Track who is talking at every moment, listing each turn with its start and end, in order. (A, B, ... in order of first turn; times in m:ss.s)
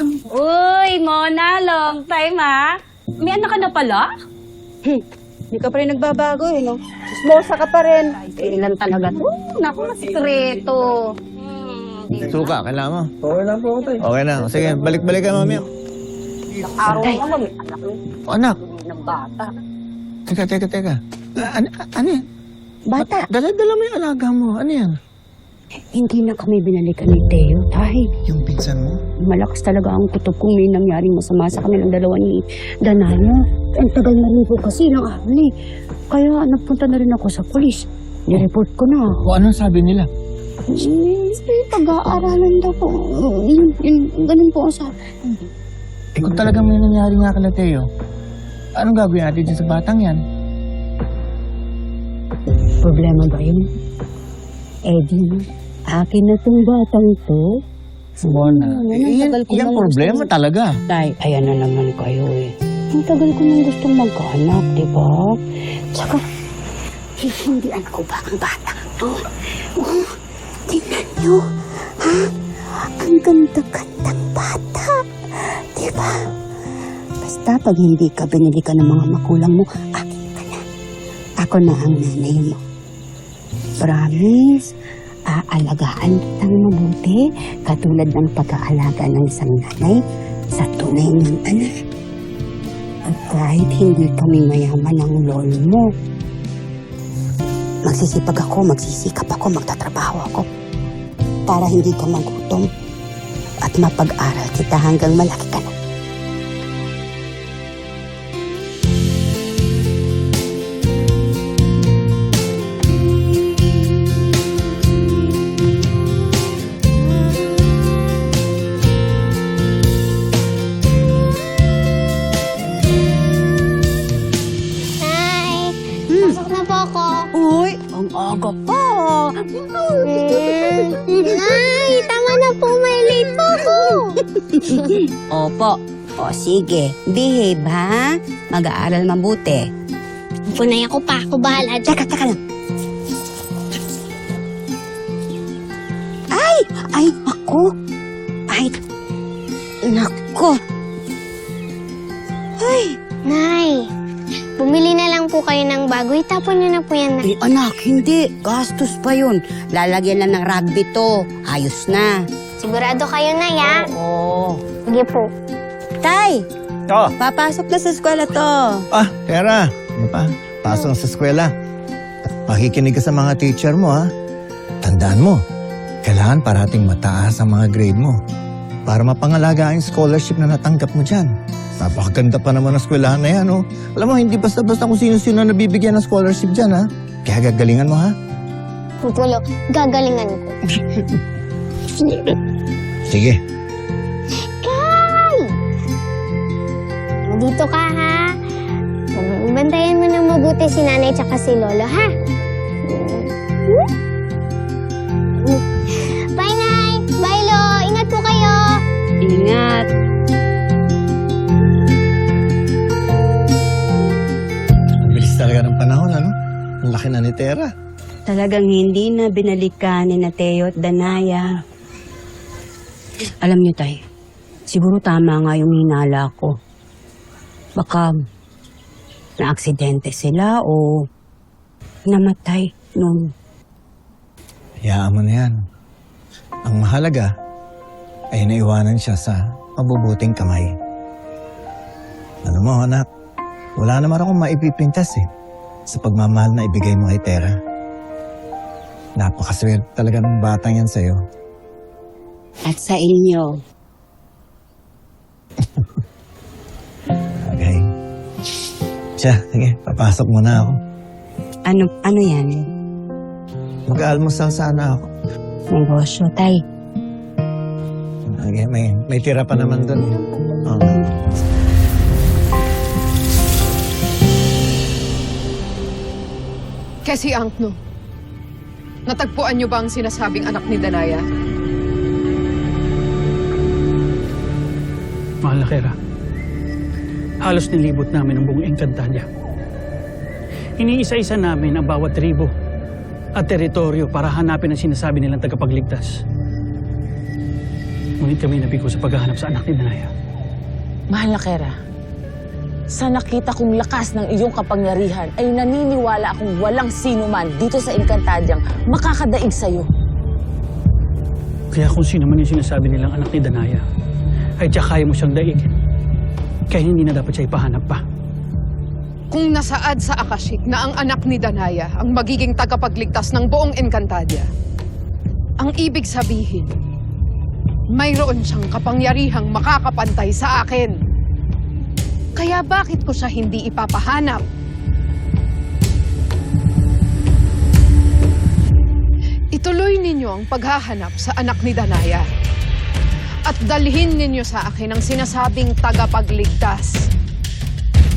0:00.3-0:04.1 A
0:05.5-0:06.8 B
0:07.2-0:12.3 A
0:07.3-0:08.1 B
0:12.2-0:13.1 C
0:14.0-0:15.7 C
0:16.5-0:18.0 A
0:16.9-0:17.2 B
0:18.3-0:18.6 C
0:18.6-0:19.5 A
0:20.3-0:22.2 C
0:22.9-0:23.3 B
0:23.0-0:25.0 C
0:25.9-0:28.1 B
0:28.2-0:29.0 C
0:29.3-0:35.5 B
0:36.1-0:39.2 B
0:39.2-0:40.1 C
0:40.7-0:45.1 B
0:46.2-0:47.9 C
0:48.8-0:50.2 C
0:52.8-0:53.7 B
0:54.9-0:57.5 B
0:58.2-1:00.3 B
0:58.2-1:00.7 C
1:00.9-1:05.4 B
1:05.9-1:06.2 B
1:07.2-1:10.1 B
1:10.7-1:12.3 B
1:13.0-1:16.2 B
1:17.2-1:20.6 B
1:21.4-1:22.6 B
1:23.8-1:24.7 B
1:25.3-1:30.0 B
1:30.6-1:31.7 B
1:33.1-1:35.9 B
1:37.8-1:40.5 B
1:41.5-1:42.7 B
1:43.6-1:45.7 B
2:05.0-2:07.2 D
2:06.1-2:06.4 B
2:07.3-2:11.6 B
2:10.0-2:14.1 D
2:14.5-2:19.6 B
2:20.5-2:21.9 D
2:21.8-2:22.4 B
2:26.3-2:27.7 B
2:28.5-2:28.8 B
2:29.9-2:30.6 B
2:32.6-2:33.0 B
2:33.3-2:33.8 D
2:34.6-2:37.2 D
2:37.2-2:42.2 B
2:42.6-2:43.9 D
2:43.6-2:44.6 B
2:44.9-2:45.3 D
2:46.0-2:46.4 B
2:46.9-2:47.1 C
2:47.2-2:48.8 B
2:48.9-2:51.5 C
2:52.5-2:54.0 C
2:54.8-2:55.4 C
2:56.0-2:58.2 C
2:58.9-3:08.1 C
3:09.0-3:10.6 D
3:12.0-3:12.4 D
3:13.1-3:13.4 C
3:14.6-3:15.5 D
3:17.3-3:18.2 D
3:19.2-3:22.1 D
3:22.9-3:23.9 D
3:26.4-3:28.6 D
3:29.2-3:29.9 B
3:35.0-3:36.3 C
3:36.8-3:37.7 C
3:38.3-3:41.6 B
3:43.4-3:44.0 B
3:44.7-3:46.5 B
3:47.8-3:48.1 B
3:49.4-3:51.0 B
3:52.1-3:53.3 B
3:54.8-3:55.6 C
3:56.6-3:57.3 C
3:58.3-4:00.7 C
4:02.4-4:03.0 C
4:03.8-4:05.3 C
4:05.9-4:07.6 C
4:09.2-4:11.2 C
4:12.6-4:13.6 B
4:17.4-4:17.8 C
4:19.2-4:20.8 C
4:21.7-4:22.7 B
4:23.9-4:25.1 C
4:25.7-4:26.6 B
4:28.3-4:30.1 C
4:30.7-4:31.0 C
4:37.1-4:37.8 E
4:39.1-4:41.2 E
4:45.4-4:46.0 F
4:47.4-4:49.3 F
4:50.8-4:52.5 F
4:53.4-4:56.2 F
4:58.2-5:00.1 F
5:01.1-5:01.8 G
5:02.9-5:09.9 G
5:11.7-5:13.8 F
5:14.6-5:15.7 F
5:16.7-5:18.0 F
5:19.3-5:24.5 E
5:25.6-5:26.7 E
5:28.0-5:31.0 E
5:32.4-5:34.4 E
5:39.5-5:42.3 E
5:43.5-5:47.0 E